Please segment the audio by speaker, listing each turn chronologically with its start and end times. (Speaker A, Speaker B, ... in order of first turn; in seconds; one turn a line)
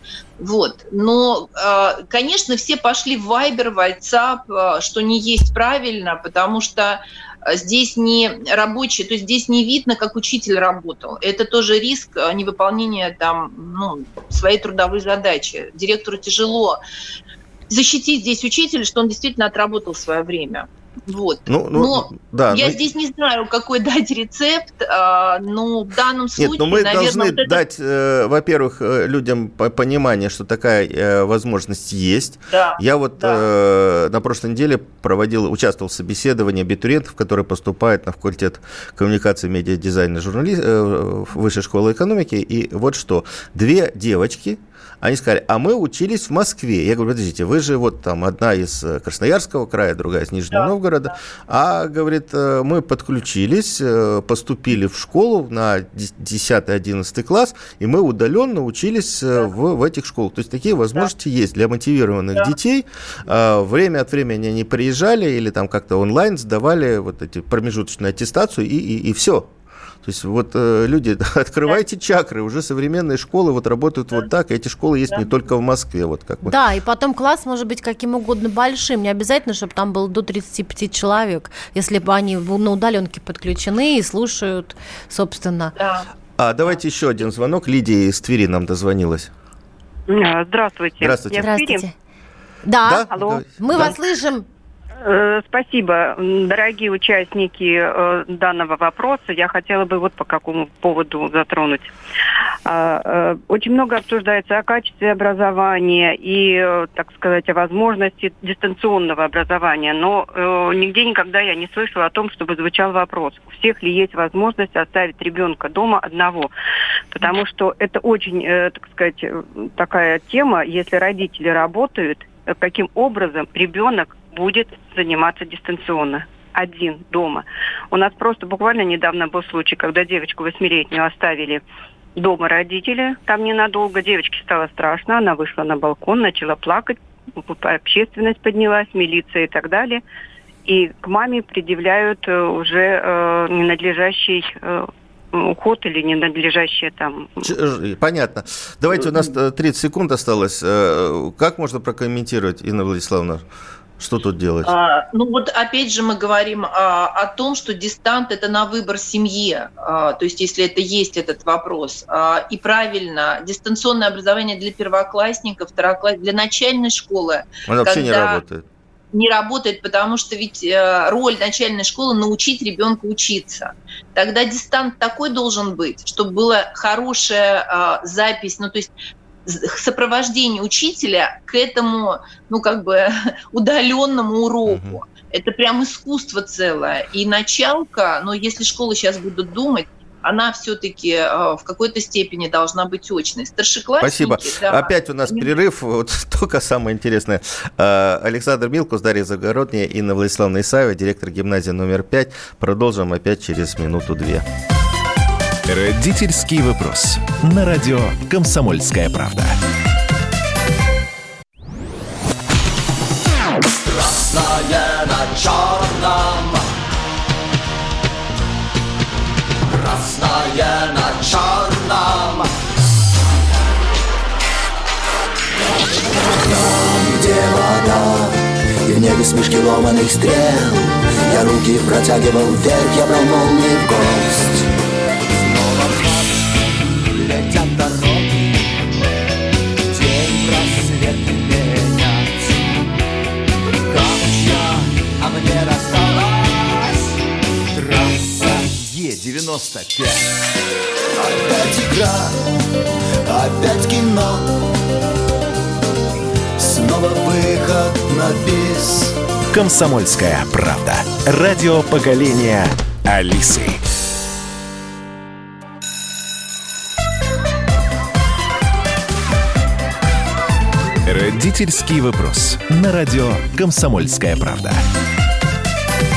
Speaker A: 0.4-16.8
Speaker A: 17.7-27.6
Speaker B: 21.5-22.8
Speaker B: 26.4-69.5
Speaker A: 32.5-33.4
Speaker A: 50.5-51.1
Speaker B: 70.0-76.5
Speaker C: 76.4-85.7
Speaker A: 85.8-86.1
Speaker B: 86.4-89.3
Speaker D: 90.1-91.8
Speaker B: 91.0-91.5
Speaker C: 91.4-91.9
Speaker C: 92.6-94.5
Speaker B: 92.8-94.0
Speaker D: 93.1-93.9
Speaker D: 95.0-101.9
Speaker D: 102.7-116.5
Speaker D: 117.1-131.6
Speaker D: 132.2-140.0
Speaker D: 140.7-147.5
Speaker B: 147.4-153.4
Speaker B: 154.0-154.7
Speaker A: 154.6-168.4
Speaker B: 167.7-168.6
Speaker A: 169.1-178.9
Speaker A: 179.4-195.5
Speaker B: 184.7-185.0
Speaker B: 194.0-204.4
Speaker E: 205.7-209.6
Speaker F: 213.9-216.6
Speaker F: 219.7-222.5
Speaker F: 226.1-234.7
Speaker F: 235.3-238.5
Speaker F: 239.9-242.6
Speaker F: 243.9-247.0
Speaker F: 247.7-250.3
Speaker F: 251.2-252.5
Speaker F: 253.2-254.6
Speaker F: 256.6-259.1
Speaker E: 259.5-263.8
Speaker E: 271.1-274.8